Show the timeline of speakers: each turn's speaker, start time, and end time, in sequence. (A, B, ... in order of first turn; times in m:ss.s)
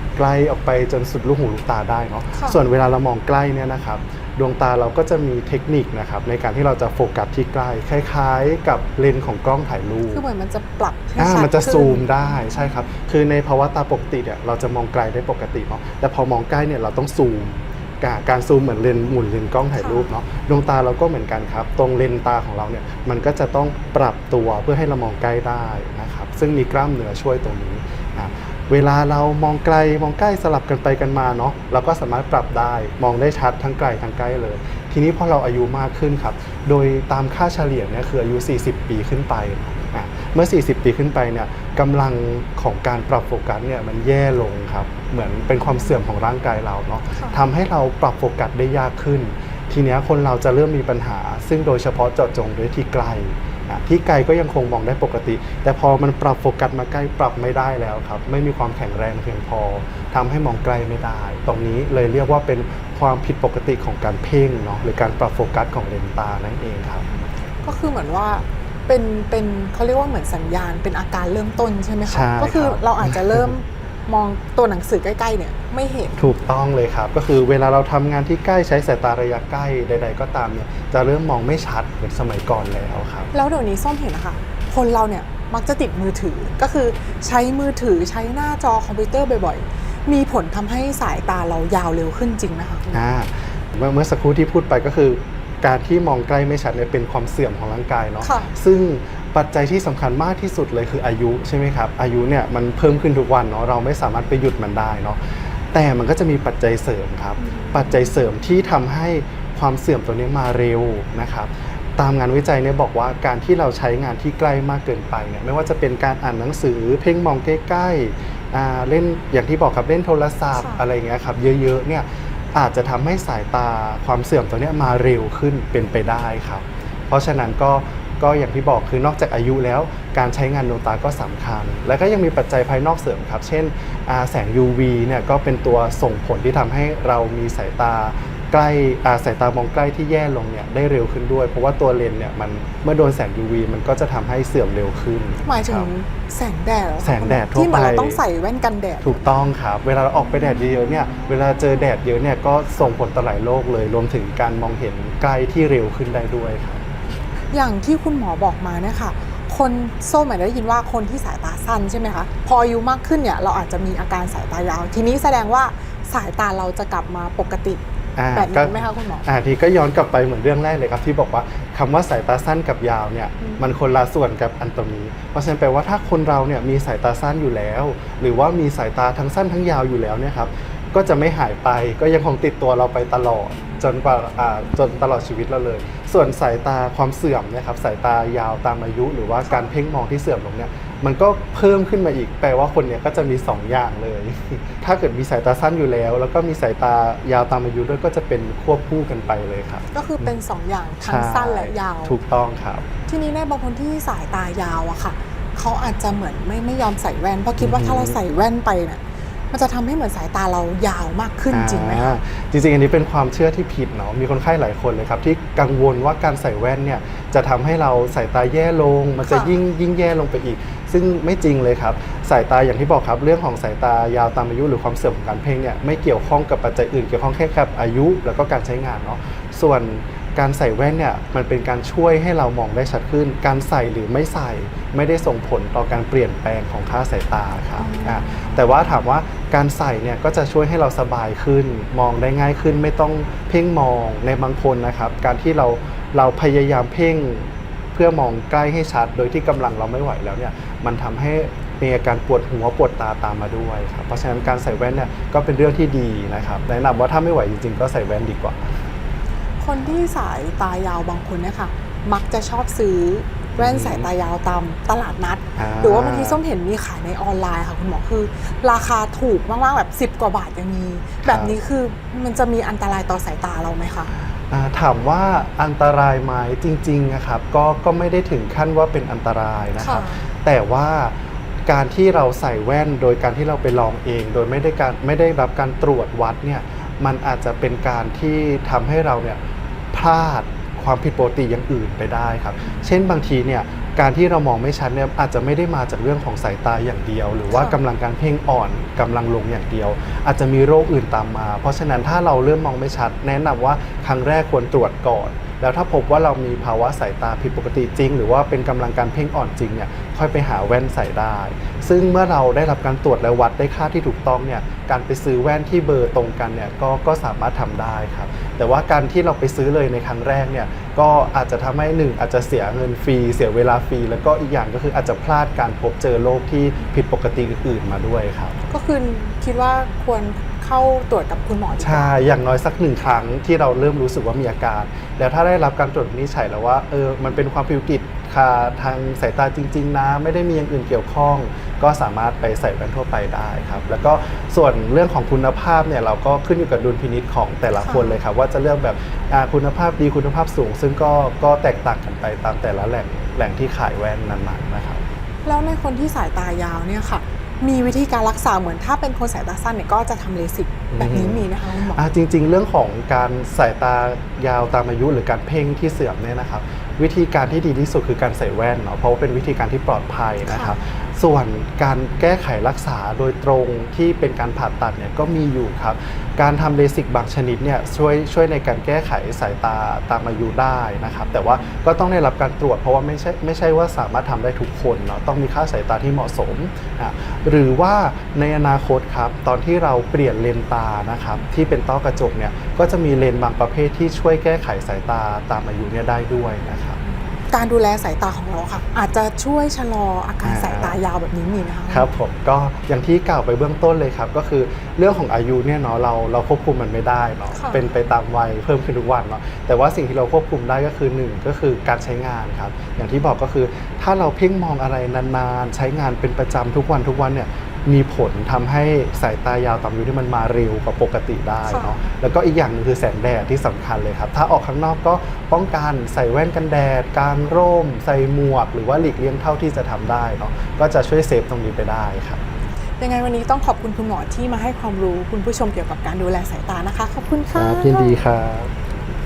0:00.2-0:10.2 A
0:02.3-0:02.6 B
0:10.1-0:12.2 B
0:11.2-1:07.1 A
0:19.8-0:20.1 B
1:07.6-1:16.3 B
1:12.1-1:13.5 A
1:16.2-1:23.3 A
1:23.3-1:33.0 B
1:32.9-2:25.9 A
1:38.2-1:38.5 B
1:47.4-1:47.8 B
2:00.5-2:00.8 B
2:25.4-2:29.4 B
2:27.0-2:28.2 A
2:29.0-2:36.8 A
2:31.1-2:31.6 B
2:37.5-2:47.8 B
2:48.2-3:20.3 A
2:48.3-2:49.2 B
3:19.9-3:22.2 B
3:21.0-3:22.9 A
3:23.0-3:32.2 B
3:27.6-3:28.2 A
3:31.5-4:18.6 A
3:39.2-3:39.6 B
3:57.8-3:58.6 B
4:19.6-4:34.1 B
4:23.6-4:24.1 A
4:25.6-4:26.4 A
4:31.2-4:31.6 A
4:34.5-4:49.4 A
4:39.8-4:40.2 B
4:49.9-5:28.6 A
4:57.5-4:57.8 B
5:28.7-5:32.2 B
5:31.8-5:55.0 A
5:47.7-5:48.2 B
5:55.4-6:02.0 B
6:00.9-6:37.0 A
6:10.4-6:10.7 B
6:37.5-6:42.1 B
6:40.4-6:41.0 A
6:41.9-7:12.4 A
6:47.5-6:47.9 B
7:01.7-7:02.0 B
7:13.0-7:18.2 B
7:17.5-7:18.7 A